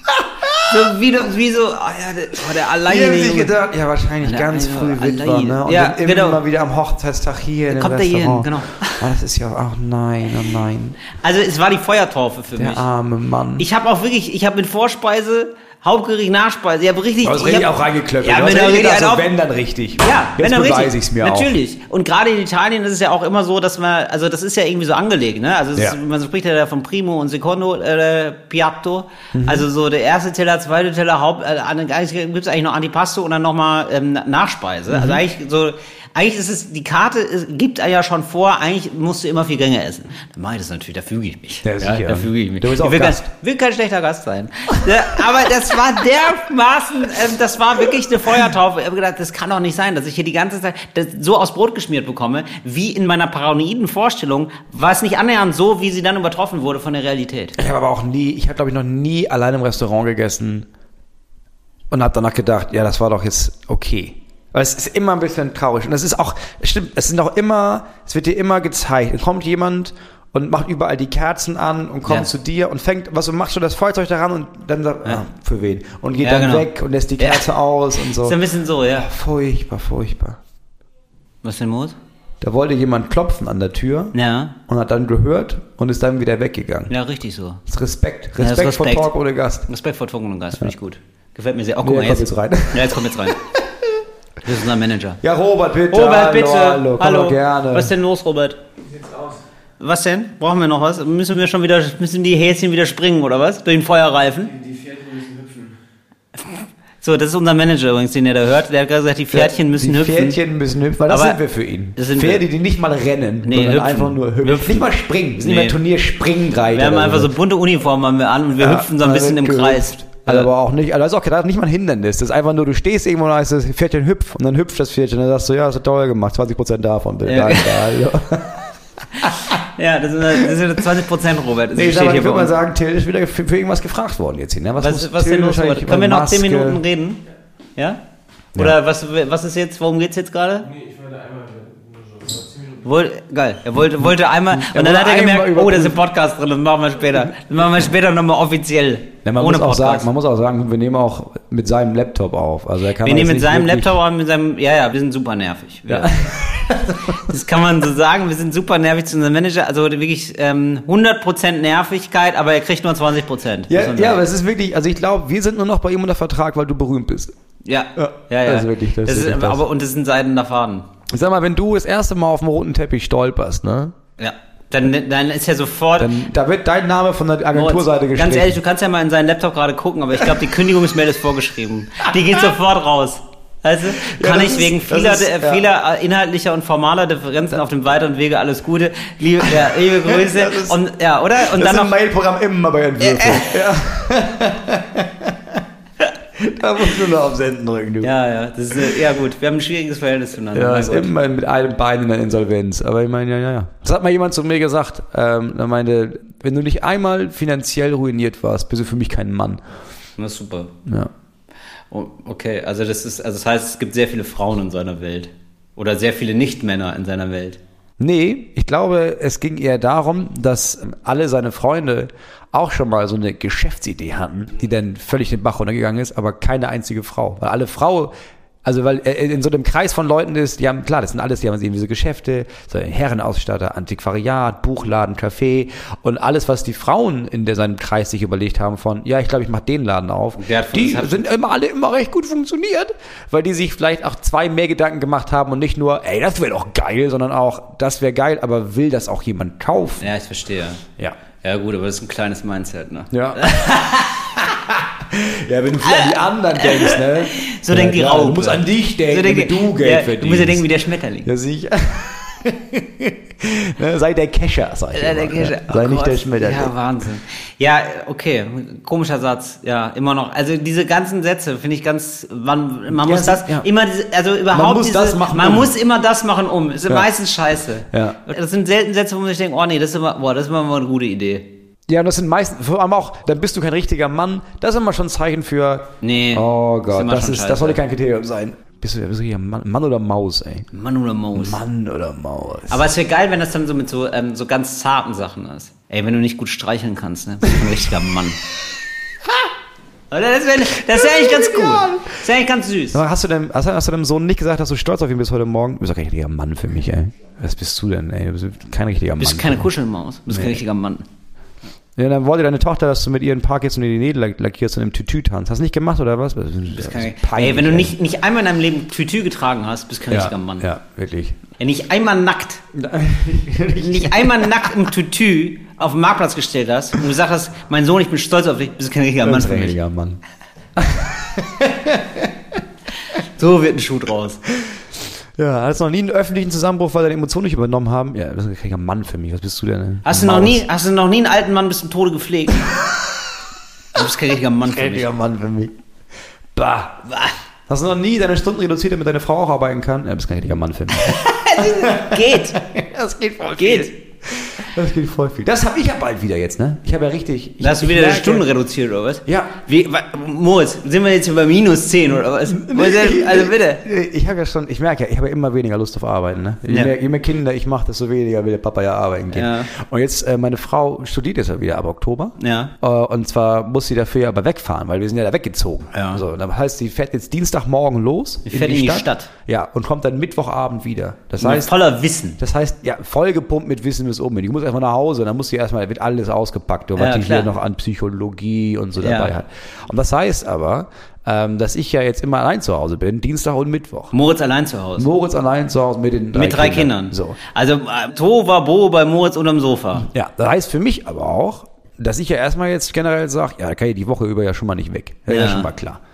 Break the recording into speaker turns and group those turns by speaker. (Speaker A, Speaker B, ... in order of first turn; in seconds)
Speaker A: 0.6-3.5, 4.2-6.4, 7.7-9.1, 11.2-12.8, 13.6-19.3, 20.0-57.6, 76.2-76.7, 77.2-77.5, 78.1-79.1, 81.4-82.0, 84.1-84.5, 86.9-87.6, 88.4-89.1, 89.7-93.4, 94.4-95.2, 95.9-98.6, 99.8-104.5, 106.5-110.4, 111.1-111.4, 112.0-112.4, 113.4-115.8, 116.7-120.5, 127.2-127.9, 129.2-132.5, 134.8-137.2, 138.5-140.7, 142.8-150.1, 153.0-156.2, 157.1-164.2, 167.6-170.9, 174.2-176.1, 177.5-191.9, 193.0-193.5, 198.0-201.1, 210.2-210.7, 211.9-217.6, 240.4-241.3, 250.0-250.8, 251.4-254.3, 255.8-261.3, 264.9-281.5, 286.0-287.8, 290.7-291.6, 292.7-298.4, 300.1-303.0, 309.2-311.0, 316.7-320.7, 321.6-322.6, 323.7-329.8, 333.1-334.4, 340.0-342.7, 343.9-345.1, 347.1-347.3, 351.0-352.6, 353.6-353.9, 357.6-363.8, 366.7-366.9, 369.3-369.7, 372.4-372.7, 375.9-376.2, 378.4-379.3, 381.4-382.4, 387.0-387.5, 389.0-389.3, 394.1-395.1, 396.3-400.1, 405.3-405.7
Speaker B: 2.8-11.0, 12.6-13.7, 17.2-21.5, 29.3-29.7, 34.9-35.2, 41.6-43.3, 57.6-60.7, 61.9-78.4, 78.9-80.4, 82.4-84.1, 84.7-86.9, 87.7-89.7, 91.8-94.0, 95.2-97.9, 109.3-117.3, 118.6-129.5, 131.7-136.8, 144.0-146.0, 149.2-154.0, 155.9-157.2, 163.7-167.3, 167.9-169.6, 171.1-173.9, 176.0-178.6, 183.9-185.6, 189.5-190.8, 191.4-195.6, 196.3-198.1, 200.5-209.6, 210.8-211.1, 218.0-228.1, 228.6-250.1, 253.1-253.7, 254.3-260.6, 261.2-266.7, 272.9-273.6, 274.5-275.7, 277.9-278.2, 281.9-290.7, 291.3-292.8, 300.9-302.1, 302.9-309.7, 310.3-310.6, 311.9-317.9, 320.1-321.4, 322.7-324.8, 329.2-330.2, 330.8-332.3, 335.4-340.6, 344.7-345.7, 346.5-347.0, 347.7-358.5, 359.2-359.5, 362.4-381.7, 382.4-394.1, 395.0-397.4, 400.0-406.0
Speaker C: 98.8-99.4, 104.4-105.8, 140.6-142.9